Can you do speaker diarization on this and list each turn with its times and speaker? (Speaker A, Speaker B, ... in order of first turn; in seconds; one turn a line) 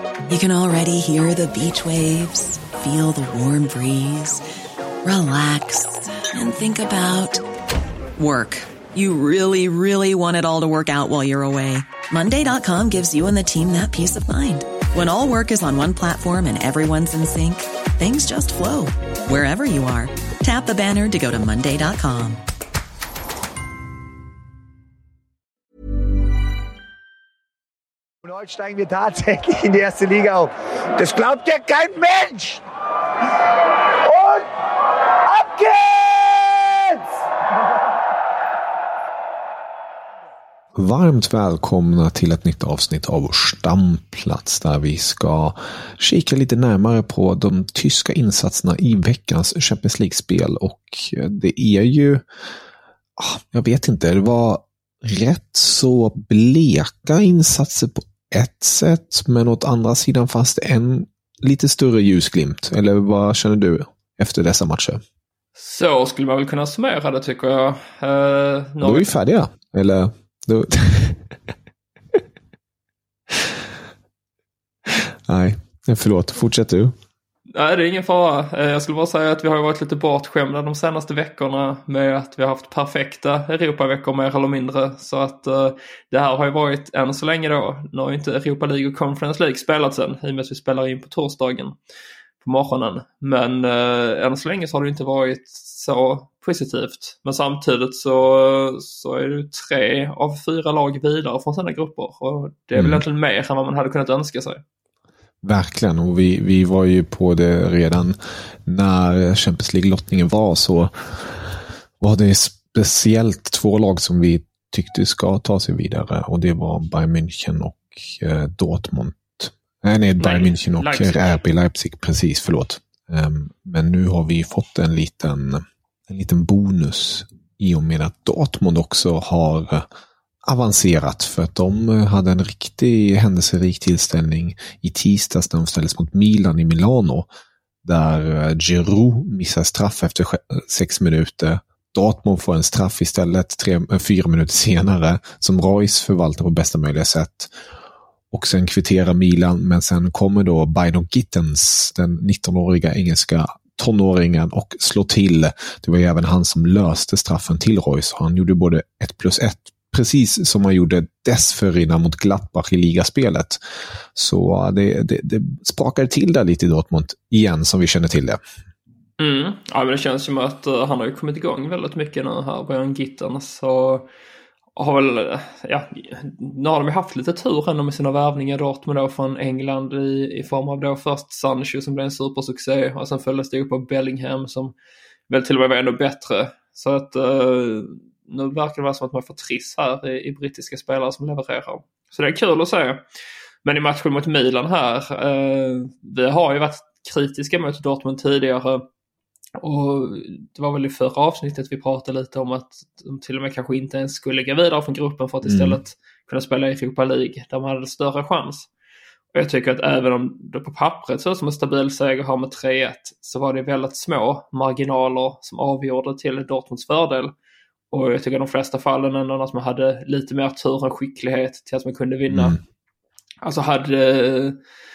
Speaker A: 0.3-4.4
Speaker A: 5.0-7.4
Speaker A: 8.2-22.4
Speaker B: 28.2-32.6
Speaker B: 34.0-34.5
Speaker B: 35.2-37.0
Speaker C: 40.8-52.2
Speaker C: 53.2-65.0
Speaker D: 65.5-69.1
Speaker C: 68.8-71.3
Speaker C: 74.8-76.9
Speaker D: 77.5-91.7
Speaker D: 92.4-104.6
Speaker C: 102.7-103.0
Speaker C: 105.4-129.9
Speaker D: 120.2-121.4
Speaker C: 130.4-137.3
Speaker C: 137.8-147.5
Speaker C: 148.3-163.6
Speaker C: 164.1-168.4
Speaker D: 169.2-174.1
Speaker D: 174.8-184.7
Speaker D: 185.3-193.0
Speaker D: 193.6-198.9
Speaker D: 199.6-208.7
Speaker C: 205.4-205.8
Speaker D: 209.3-217.3
Speaker D: 217.9-222.6
Speaker C: 222.3-222.6
Speaker D: 223.4-224.6